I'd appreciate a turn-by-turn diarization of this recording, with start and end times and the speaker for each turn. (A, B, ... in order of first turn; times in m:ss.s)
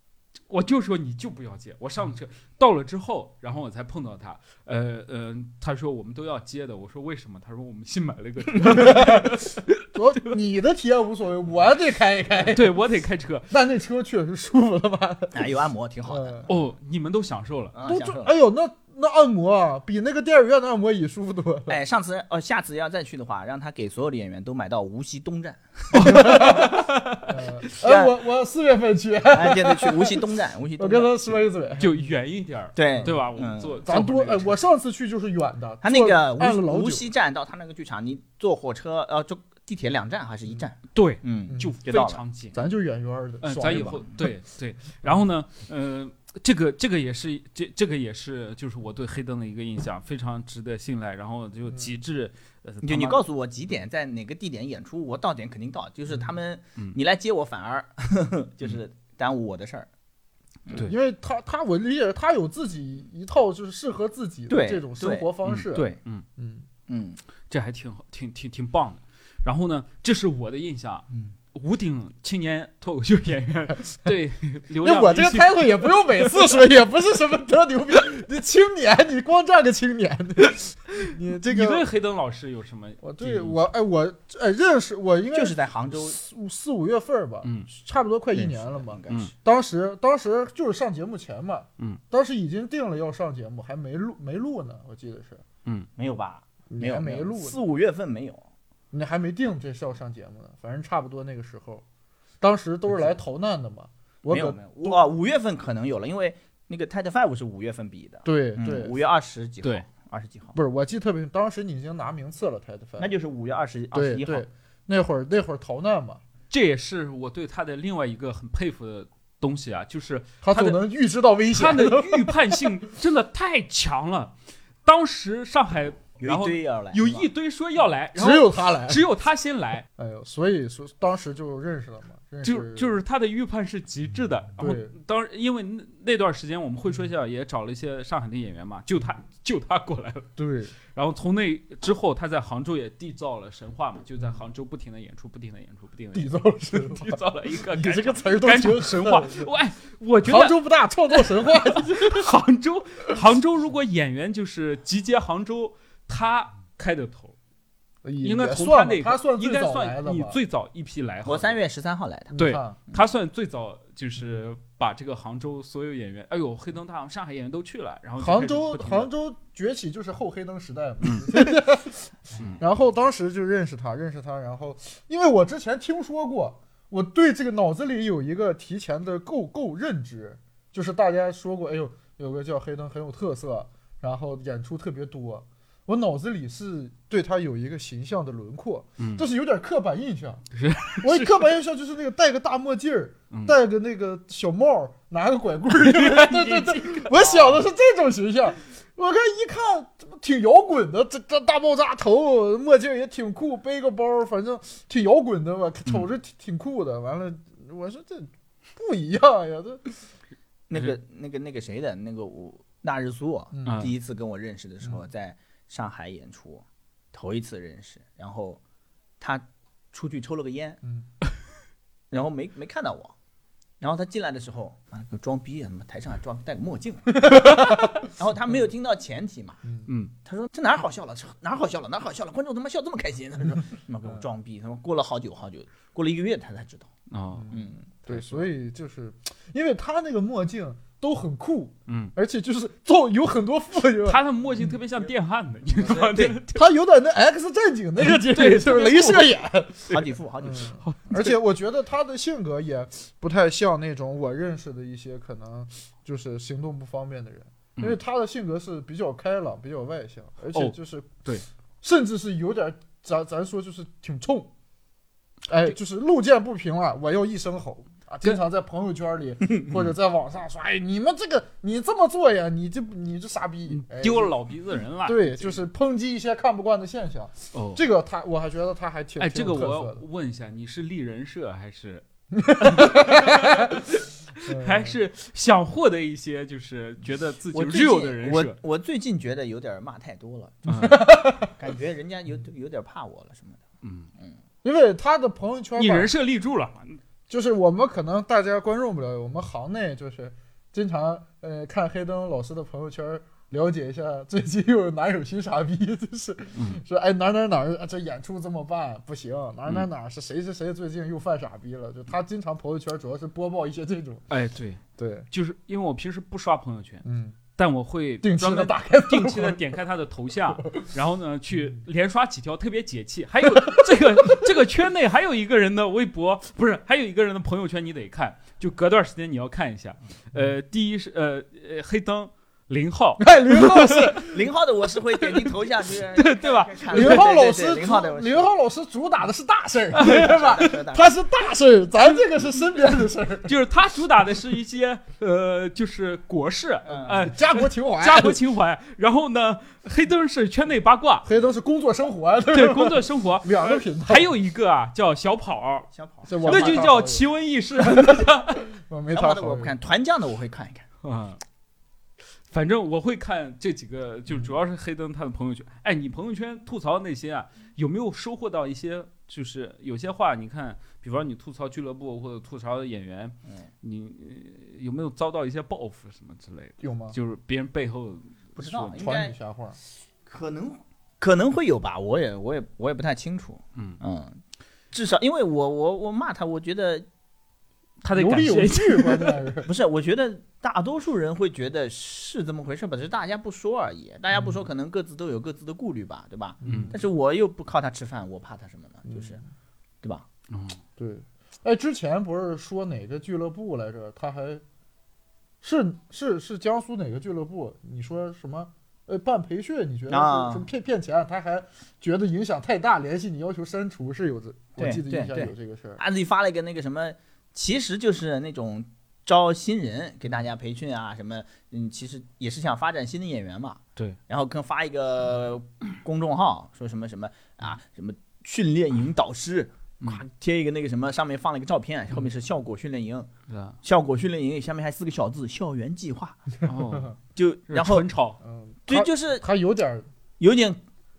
0:00.5-0:09.8 A
0:08.6-0:12.7 B
0:12.5-0:13.5 A
0:13.5-0:15.4 B
0:15.3-0:16.5 C
0:16.1-0:16.4 B
0:16.5-0:17.8 A
0:17.7-0:18.3 C
0:17.8-0:21.7 B
0:21.7-0:26.5 C
0:25.9-0:27.4 A
0:25.9-0:32.1 B
0:27.8-0:28.1 C
0:29.3-0:31.1 C
0:31.8-0:34.6 A
0:32.8-0:33.8 C
0:33.8-0:37.1 B
0:35.8-0:42.2 C
0:40.9-0:42.6 A
0:42.5-0:44.3 B
0:43.4-0:53.2 A
0:52.8-0:59.9 C
1:00.7-1:06.6 B
1:04.5-1:06.0 C
1:05.4-1:06.2 A
1:06.9-1:07.2 C
1:07.5-1:16.2 A
1:14.8-1:21.8 B
1:21.0-1:23.6 A
1:23.0-1:35.4 B
1:25.3-1:26.2 C
1:27.4-1:27.7 A
1:28.3-1:29.3 C
1:36.0-1:38.4 C
1:36.7-1:37.6 B
1:38.9-1:41.8 B
1:42.4-1:45.0 B
1:44.3-1:50.6 C
1:48.2-1:48.9 B
1:50.5-1:53.1 B
1:53.0-1:54.4 C
1:53.9-1:56.2 B
1:56.5-2:00.8 A
2:00.4-2:02.8 B
2:01.5-2:09.8 A
2:06.2-2:07.3 C
2:08.1-2:09.0 B
2:10.0-2:12.9 B
2:12.4-2:20.3 A
2:14.6-2:14.9 B
2:20.4-2:20.7 B
2:20.9-2:30.6 A
2:26.1-2:29.5 B
2:30.2-2:32.3 B
2:31.1-2:37.3 A
2:38.0-2:40.4 B
2:38.2-2:41.6 A
2:41.2-2:42.3 C
2:42.3-2:42.8 B
2:42.4-2:49.1 A
2:48.2-3:10.4 B
2:51.0-2:51.4 A
3:09.0-3:09.2 A
3:10.5-3:11.5 A
3:11.0-3:29.9 B
3:15.7-3:17.4 A
3:30.7-3:38.6 C
3:33.5-3:33.9 B
3:33.6-3:33.9 A
3:39.2-3:40.8 C
3:42.1-3:43.1 C
3:43.8-3:47.4 C
3:47.3-3:47.9 B
3:48.0-3:49.6 C
3:49.6-3:49.9 B
3:49.9-3:50.1 A
3:50.2-3:56.9 C
3:57.1-3:57.5 A
3:57.3-4:04.8 B
3:57.5-3:58.3 C
4:01.9-4:02.1 A
4:04.0-4:06.7 A
4:05.9-4:06.4 C
4:05.9-4:21.2 B
4:08.1-4:09.3 A
4:09.9-4:10.8 C
4:10.8-4:11.3 A
4:20.5-4:21.4 A
4:21.8-4:24.5 B
4:25.5-4:34.3 B
4:33.7-4:35.6 A
4:35.0-4:40.0 B
4:37.5-4:37.8 A
4:39.2-4:48.6 A
4:42.3-4:43.8 B
4:44.4-4:45.0 B
4:47.5-4:53.6 C
4:50.6-4:51.0 A
4:50.8-4:51.5 B
4:53.8-4:54.1 A
4:54.6-4:56.1 B
4:55.8-4:57.0 A
4:57.3-5:14.2 B
5:06.5-5:06.8 A
5:14.3-5:17.0 A
5:15.0-5:15.3 B
5:17.0-5:17.4 B
5:17.6-5:34.3 A
5:18.2-5:19.6 B
5:20.5-5:20.9 B
5:23.5-5:23.9 B
5:33.2-5:34.4 B
5:34.3-5:38.5 C
5:35.2-5:35.5 A
5:36.1-5:37.2 A
5:36.9-5:43.5 B
5:39.9-5:40.3 A
5:40.0-5:41.1 C
5:43.4-5:51.3 A
5:46.8-5:47.3 C
5:47.1-5:48.4 B
5:51.2-5:54.3 B
5:52.5-5:55.9 A
5:55.9-5:56.8 C
5:56.2-5:57.3 B
5:56.4-5:58.6 A
5:57.8-5:59.7 B
5:59.1-6:00.8 C
6:01.0-6:01.4 A
6:02.5-6:19.0 A
6:16.8-6:17.2 B
6:18.6-6:19.3 C
6:19.0-6:19.8 B
6:20.2-6:24.4 C
6:24.9-6:27.0 C
6:28.0-6:29.4 A
6:28.1-6:29.7 B
6:29.6-6:39.4 C
6:36.6-6:37.0 B
6:36.6-6:36.9 A
6:39.0-6:39.4 B
6:40.5-6:40.8 A
6:41.0-6:44.6 B
6:45.6-6:56.0 B
6:50.1-6:50.7 C
6:54.8-7:13.3 C
7:13.5-7:13.8 A
7:13.8-7:16.4 C
7:16.6-7:17.2 A
7:17.4-7:18.0 C
7:17.7-7:18.4 A
7:18.4-7:20.1 B
7:18.9-7:19.4 C
7:20.4-7:20.8 C